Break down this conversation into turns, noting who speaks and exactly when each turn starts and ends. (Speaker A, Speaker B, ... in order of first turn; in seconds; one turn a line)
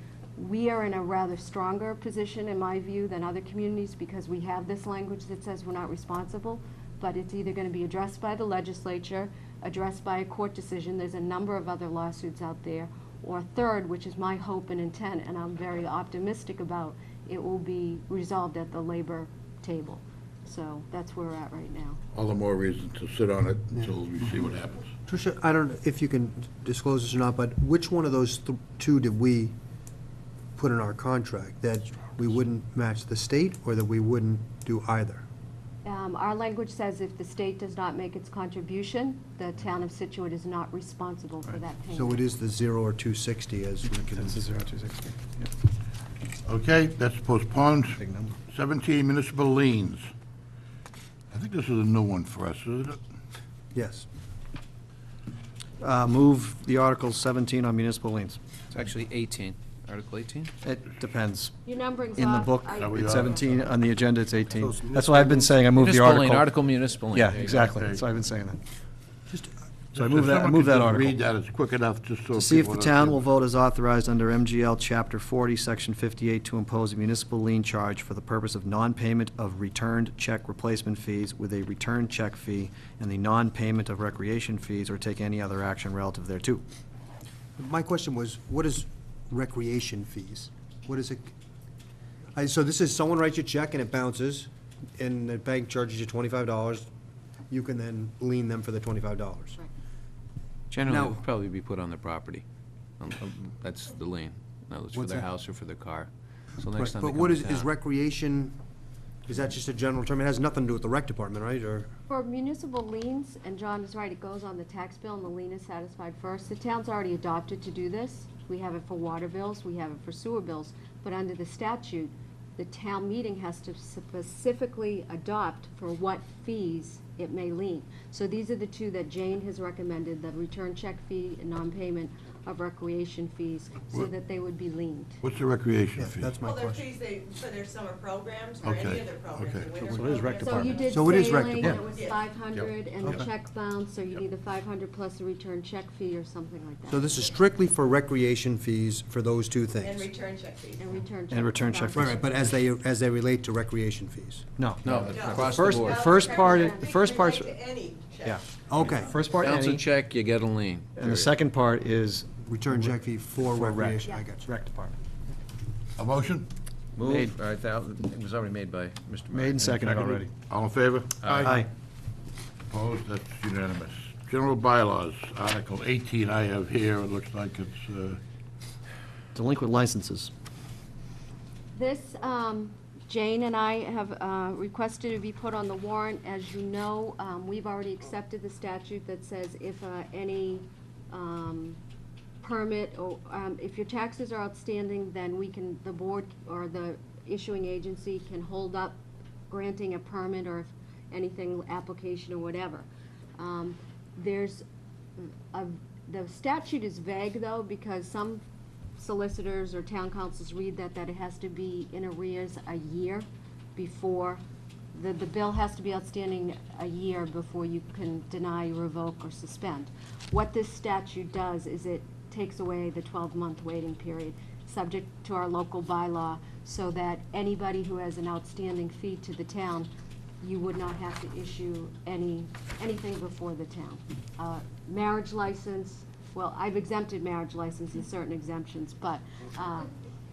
Speaker A: 0.3-22.0
Speaker B: 22.1-24.9
Speaker C: 25.1-29.5
Speaker C: 30.6-35.2
Speaker A: 35.8-42.2
Speaker C: 41.9-44.4
Speaker D: 43.9-45.5
Speaker B: 46.5-50.1
Speaker D: 48.0-48.3
Speaker B: 51.3-53.0
Speaker C: 53.7-54.1
Speaker D: 55.8-58.4
Speaker E: 58.7-60.5
Speaker D: 60.6-61.5
Speaker A: 61.6-63.6
Speaker D: 62.1-66.5
Speaker B: 62.8-63.4
Speaker C: 64.6-65.5
Speaker E: 65.8-67.7
Speaker D: 67.1-68.6
Speaker B: 67.5-68.0
Speaker B: 69.9-73.2
Speaker D: 70.0-71.2
Speaker D: 72.3-86.6
Speaker C: 87.6-91.3
Speaker C: 92.3-96.9
Speaker C: 97.5-99.6
Speaker E: 100.7-102.4
Speaker C: 100.8-101.2
Speaker E: 103.0-107.7
Speaker C: 104.9-105.2
Speaker C: 106.7-108.5
Speaker C: 109.3-111.9
Speaker A: 112.1-135.2
Speaker B: 135.2-136.4
Speaker C: 135.9-136.8
Speaker F: 136.4-142.2
Speaker B: 138.6-139.8
Speaker D: 140.1-140.4
Speaker A: 140.4-147.2
Speaker C: 140.9-141.8
Speaker B: 142.6-143.2
Speaker C: 146.9-150.1
Speaker F: 149.8-150.8
Speaker A: 150.8-152.2
Speaker D: 151.3-152.2
Speaker C: 151.9-154.4
Speaker D: 154.6-157.5
Speaker E: 154.8-156.2
Speaker F: 155.0-158.4
Speaker A: 156.2-156.7
Speaker D: 158.2-159.8
Speaker C: 158.7-159.1
Speaker E: 159.3-161.3
Speaker D: 161.0-164.9
Speaker C: 162.4-164.5
Speaker B: 166.0-166.5
Speaker E: 166.9-170.2
Speaker D: 167.0-167.3
Speaker D: 169.3-170.3
Speaker B: 170.4-171.7
Speaker E: 171.2-171.5
Speaker D: 171.4-171.7
Speaker B: 172.7-178.2
Speaker D: 179.3-180.3
Speaker A: 181.7-191.8
Speaker A: 192.4-199.0
Speaker A: 199.5-204.6
Speaker A: 205.2-208.4
Speaker A: 209.0-214.4
Speaker A: 214.9-229.9
Speaker A: 230.4-239.9